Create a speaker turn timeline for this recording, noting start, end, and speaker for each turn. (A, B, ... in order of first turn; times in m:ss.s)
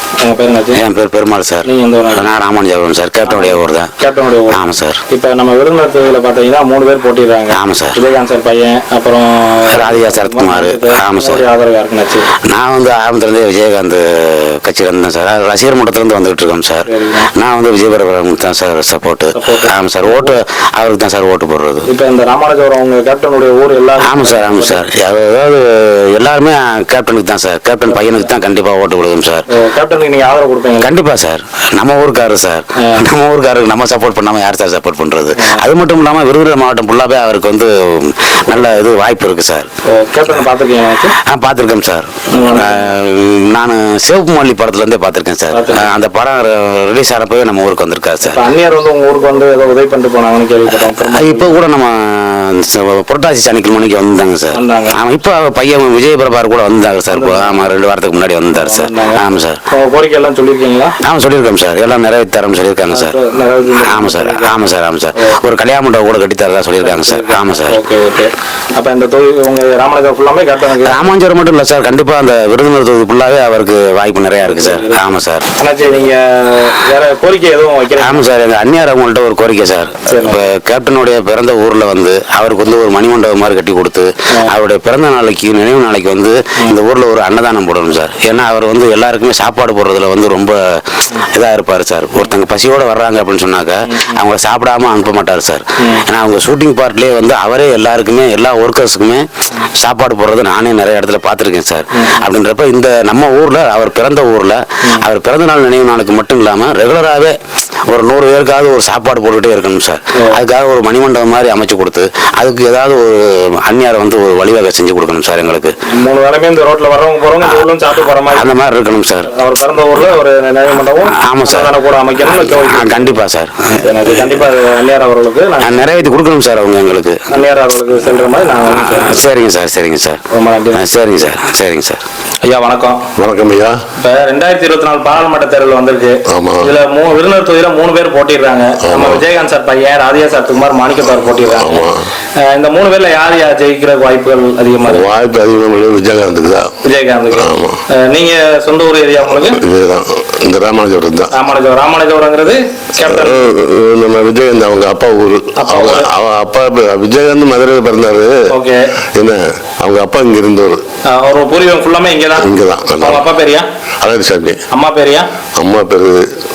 0:00.2-0:00.8 A
0:00.7-0:03.9 B
0:01.6-0:02.3 A
0:03.2-0:12.3 A
0:04.5-0:05.0 B
0:07.5-0:08.0 B
0:09.7-0:11.4 B
0:12.5-0:21.8 B
0:16.8-0:17.3 A
0:19.3-0:20.3 A
0:21.8-0:24.8 A
0:24.0-0:29.4 B
0:27.8-0:28.3 A
0:29.5-0:31.0 A
0:30.8-0:39.7 B
0:35.4-0:35.6 A
0:39.9-0:41.1 A
0:41.2-0:48.4 B
0:42.3-0:42.8 A
0:45.5-0:45.9 A
0:48.3-0:51.6 A
0:50.7-0:59.6 B
0:54.5-0:55.0 A
0:57.1-0:57.6 A
0:58.5-0:59.2 A
0:59.7-1:00.9 A
1:01.0-1:03.2 B
1:02.9-1:04.6 A
1:03.8-1:07.8 B
1:05.2-1:05.4 A
1:06.8-1:11.1 A
1:10.8-1:15.4 B
1:14.4-1:18.2 A
1:18.0-1:47.3 B
1:20.1-1:20.5 A
1:33.9-1:34.2 A
1:35.8-1:36.1 A
1:41.9-1:42.2 A
1:47.9-1:55.7 B
1:55.9-1:58.5 A
1:57.4-1:59.3 B
1:59.3-2:03.2 A
2:01.2-2:04.4 B
2:03.8-2:06.1 A
2:05.6-2:07.2 B
2:07.3-2:09.2 A
2:08.7-2:10.2 B
2:10.3-2:11.0 A
2:10.7-2:12.0 B
2:12.4-2:13.0 A
2:13.2-2:13.8 C
2:14.0-2:21.9 A
2:16.3-2:16.7 C
2:18.8-2:19.2 C
2:21.5-2:22.0 C
2:22.5-2:25.1 A
2:24.8-2:26.7 C
2:26.8-2:27.5 A
2:27.3-2:27.8 C
2:28.0-2:29.6 A
2:29.4-2:31.3 C
2:31.3-2:33.5 A
2:33.1-2:38.4 C
2:35.6-2:36.1 A
2:38.5-2:38.8 A
2:39.1-2:40.8 C
2:41.1-2:43.7 A
2:42.4-2:43.3 C
2:44.0-2:44.6 C
2:44.7-2:45.3 A
2:45.6-2:46.2 C